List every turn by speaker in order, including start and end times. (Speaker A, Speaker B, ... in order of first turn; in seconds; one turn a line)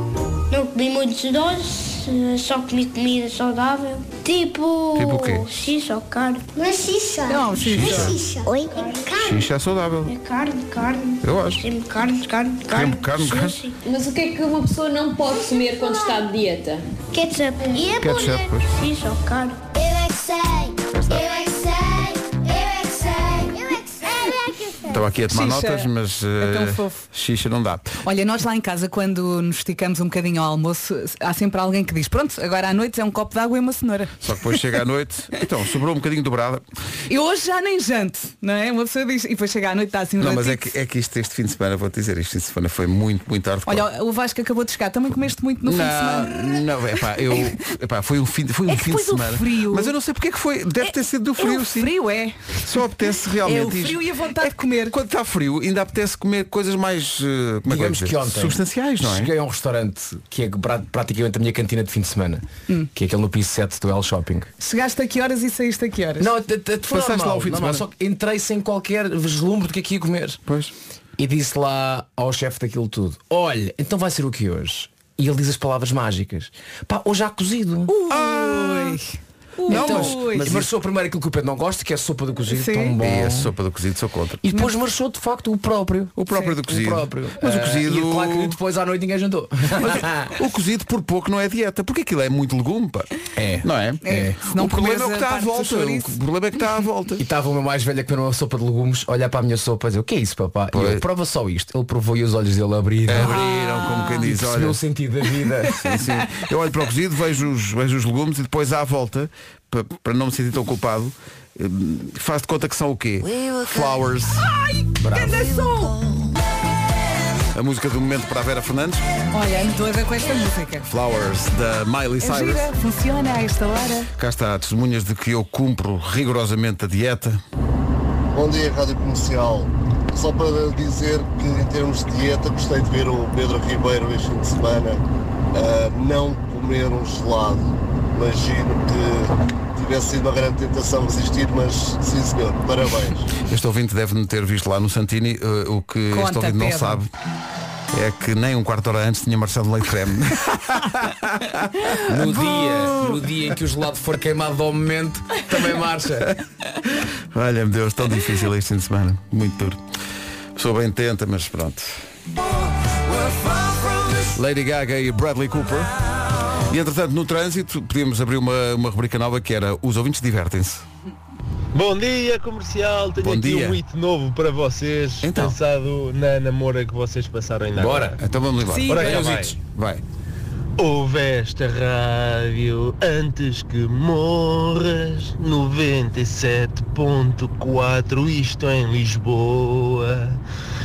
Speaker A: 0.5-9.5
Speaker B: 4.9-5.5
Speaker C: 7.3-8.2
Speaker B: 7.6-8.2
Speaker B: 9.1-10.1
Speaker A: 10.1-13.7
Speaker B: 11.2-11.6
Speaker B: 12.7-13.6
Speaker D: 13.8-16.8
Speaker A: 17.1-25.0
Speaker B: 17.9-18.7
Speaker B: 20.9-21.2
Speaker B: 24.9-28.0
Speaker C: 25.3-25.9
Speaker C: 26.4-27.0
Speaker C: 28.0-34.3
Speaker B: 34.2-36.6
Speaker C: 37.1-40.7
Speaker B: 40.2-43.9
Speaker C: 43.7-46.6
Speaker B: 45.6-51.9
Speaker C: 48.7-49.9
Speaker C: 51.4-52.6
Speaker B: 52.6-59.3
Speaker C: 53.4-54.9
Speaker E: 57.7-64.5
Speaker C: 64.6-66.3
Speaker E: 66.2-70.4
Speaker B: 66.9-67.8
Speaker B: 70.5-70.7
Speaker E: 71.2-77.9
Speaker C: 77.9-80.5
Speaker B: 78.1-79.0
Speaker B: 79.7-80.7
Speaker E: 79.7-83.5
Speaker C: 82.5-82.9
Speaker B: 83.0-84.4
Speaker E: 84.4-90.3
Speaker B: 86.2-88.6
Speaker B: 89.8-93.1
Speaker E: 93.3-94.3
Speaker B: 93.6-97.2
Speaker C: 94.0-96.1
Speaker E: 97.2-103.4
Speaker B: 100.7-101.0
Speaker B: 103.0-104.8
Speaker C: 103.2-104.2
Speaker E: 104.2-105.9
Speaker B: 105.7-114.4
Speaker C: 114.8-116.0
Speaker E: 115.0-115.4
Speaker B: 117.5-119.0
Speaker C: 119.3-120.8
Speaker B: 120.8-122.7
Speaker C: 122.2-124.1
Speaker B: 124.2-127.4
Speaker F: 128.3-135.0
Speaker F: 135.5-143.3
Speaker B: 143.4-147.1
Speaker C: 146.1-147.0
Speaker B: 147.9-153.2
Speaker E: 152.0-156.3
Speaker B: 157.0-159.8
Speaker B: 160.6-161.9
Speaker B: 164.3-165.9
Speaker B: 166.5-170.8
Speaker G: 171.7-178.2
Speaker B: 173.2-173.8
Speaker B: 175.2-175.6
Speaker E: 177.8-178.2
Speaker B: 178.2-180.0
Speaker G: 178.9-179.5
Speaker E: 178.9-179.5
Speaker G: 180.8-190.4